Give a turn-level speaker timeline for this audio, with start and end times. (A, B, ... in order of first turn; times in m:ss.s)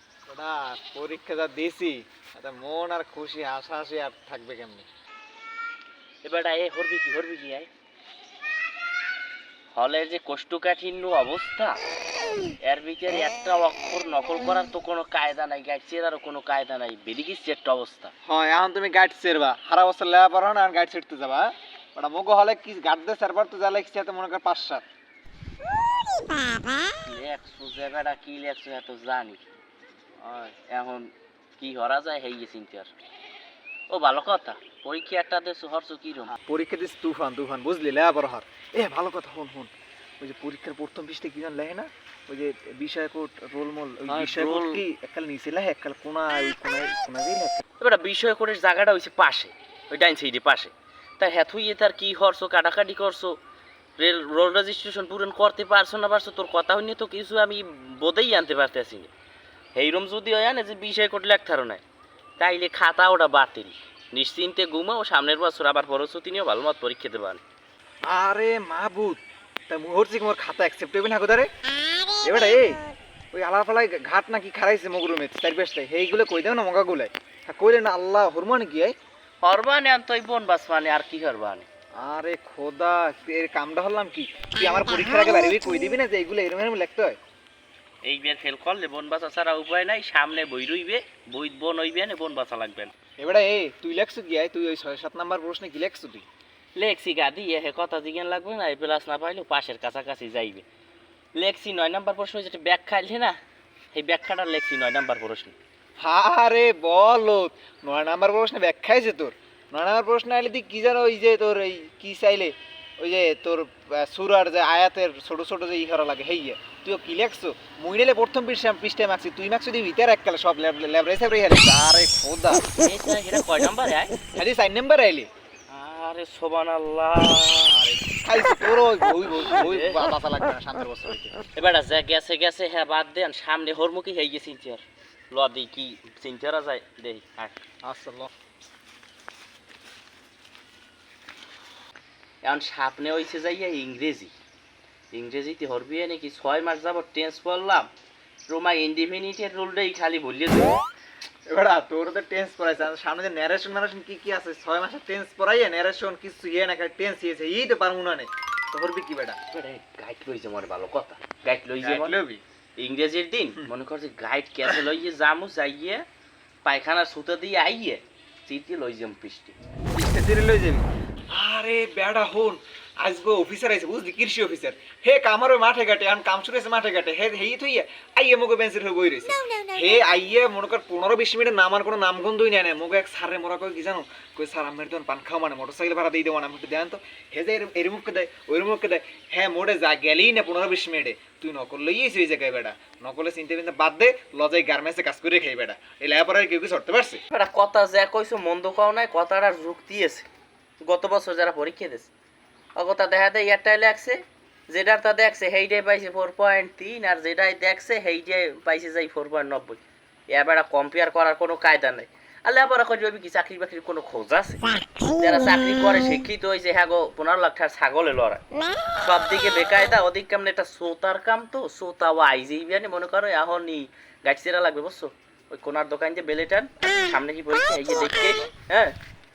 0:00.3-0:04.9 A
0:06.2-0:07.7 B
0:09.7-0:11.8 B
0:12.6-0:18.1 B
0:18.2-0:24.8 A
0:27.0-0:29.4 B
0:30.2-0:32.9 B
0:33.9-0:36.3 B
0:36.3-0:47.6 A
0:44.1-0:44.8 B
0:47.8-0:53.4 B
0:54.0-0:59.1 B
0:59.7-1:01.8 B
1:02.4-1:07.4 B
1:08.1-1:11.5 A
1:12.2-1:18.9 A
1:19.4-1:21.7 B
1:22.0-1:27.2 A
1:28.0-1:32.9 B
1:33.2-1:36.2 A
1:36.8-1:40.6 B
1:41.3-1:43.4 B
1:43.9-1:45.5 B
1:46.0-2:02.6 A
2:02.8-2:04.2 B
2:04.3-2:05.3 A
2:05.7-2:07.8 B
2:07.7-2:11.3 A
2:09.4-2:10.0 B
2:11.5-2:17.6 B
2:17.8-2:18.3 A
2:22.4-2:24.3 B
2:25.1-2:27.9 B
2:28.5-2:30.8 B
2:31.4-2:39.4 A
2:39.5-2:42.2 B
2:41.8-2:42.4 A
2:42.8-2:46.0 B
2:46.6-2:49.6 B
2:49.9-3:17.2 A
3:17.3-3:20.3 B
3:20.8-3:22.1 B
3:22.8-3:38.4 B
3:39.0-3:49.0 B